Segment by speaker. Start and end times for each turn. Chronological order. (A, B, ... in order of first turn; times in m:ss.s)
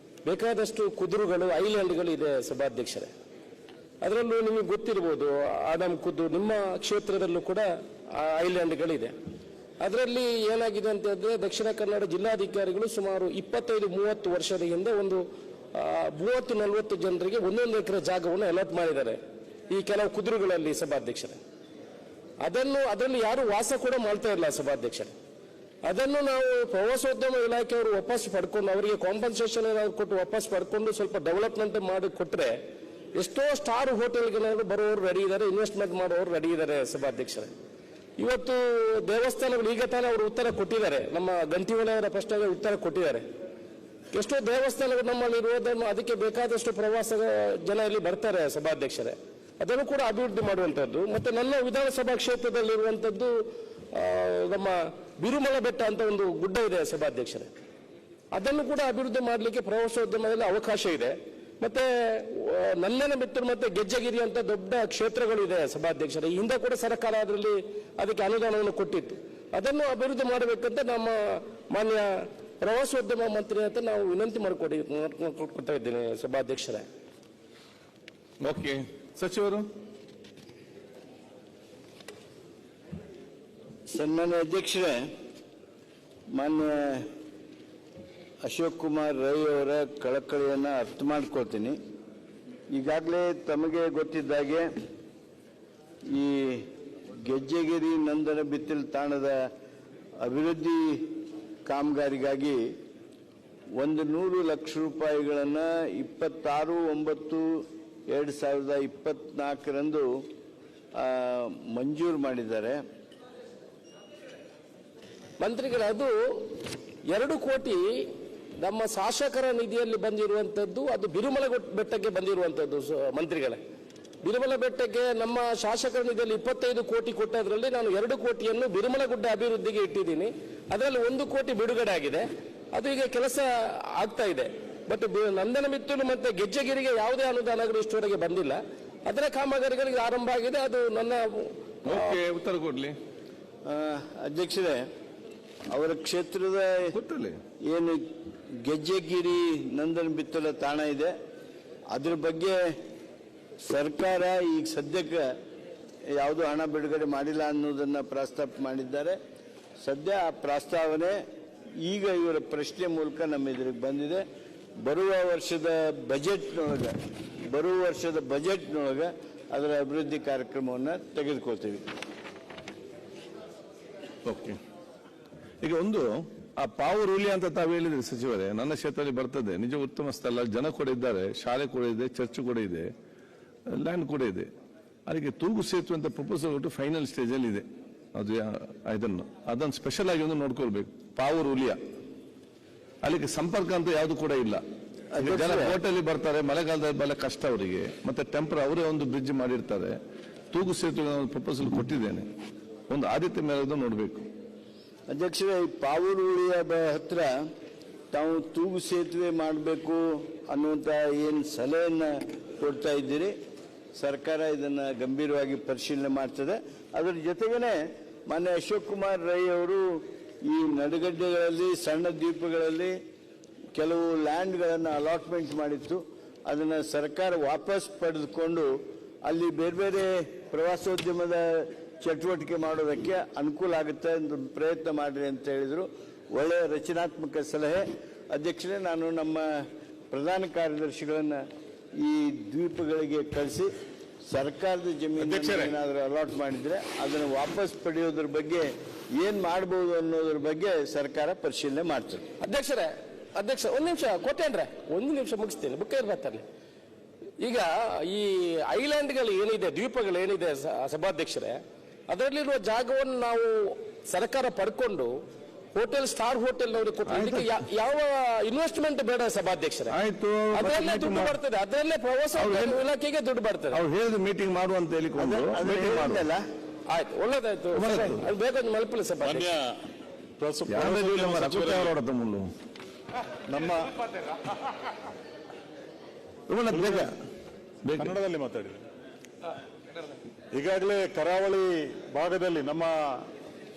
0:00.2-0:03.1 A
0:04.0-0:09.1 A
0:09.8-0:19.2 A
0:19.7-0:21.4 A
0:22.4-0:25.1 A
0:25.8-0:32.6 A
0:33.2-0:37.5 A
0:38.2-0:43.2 A
0:44.1-0:57.5 A
0:58.3-1:16.8 A
1:18.4-1:19.7 B
1:23.9-1:25.0 C
1:26.3-1:27.0 C
1:28.4-1:31.8 C
1:32.7-1:34.7 C
1:36.1-1:36.7 C
1:37.2-1:39.4 C
1:40.2-1:41.1 C
1:41.6-1:42.6 C
1:43.8-1:47.5 C
1:48.1-1:50.1 C
1:51.0-1:52.8 C
1:55.4-1:56.5 A
1:57.1-2:03.6 A
2:04.2-2:22.2 A
2:21.8-2:23.0 B
2:23.6-2:24.8 C
2:25.7-2:26.9 C
2:26.9-2:27.4 B
2:27.7-2:28.0 C
2:28.6-2:31.1 C
2:31.9-2:32.6 C
2:33.6-2:35.3 C
2:36.1-2:39.2 C
2:39.8-2:41.2 C
2:41.8-2:44.2 C
2:44.8-2:46.9 C
2:47.5-2:51.8 C
2:54.2-2:54.6 B
2:55.6-3:02.9 B
3:03.7-3:04.5 B
3:05.1-3:11.8 B
3:13.0-3:14.6 B
3:15.1-3:15.8 C
3:15.2-3:20.0 B
3:20.5-3:22.3 B
3:22.9-3:24.2 B
3:25.1-3:27.3 C
3:28.1-3:33.3 C
3:34.0-3:37.8 C
3:38.3-3:39.8 C
3:40.4-3:42.9 C
3:43.7-3:48.7 C
3:49.2-3:59.4 C
4:00.1-4:01.4 C
4:02.0-4:03.7 C
4:04.3-4:12.2 C
4:05.2-4:05.7 D
4:12.4-4:16.4 A
4:17.4-4:25.1 A
4:25.7-4:29.9 A
4:27.1-4:27.6 B
4:29.9-4:31.4 B
4:30.5-4:33.8 A
4:32.4-4:32.8 B
4:33.7-4:36.2 B
4:35.2-4:36.4 C
4:36.9-4:39.5 A
4:37.7-4:38.2 B
4:39.2-4:39.7 D
4:40.4-4:41.9 D
4:40.7-4:42.5 B
4:43.5-4:43.9 D
4:46.5-4:47.1 B
4:46.7-4:47.1 D
4:47.8-4:48.1 B
4:48.0-4:48.8 D
4:50.5-4:53.2 D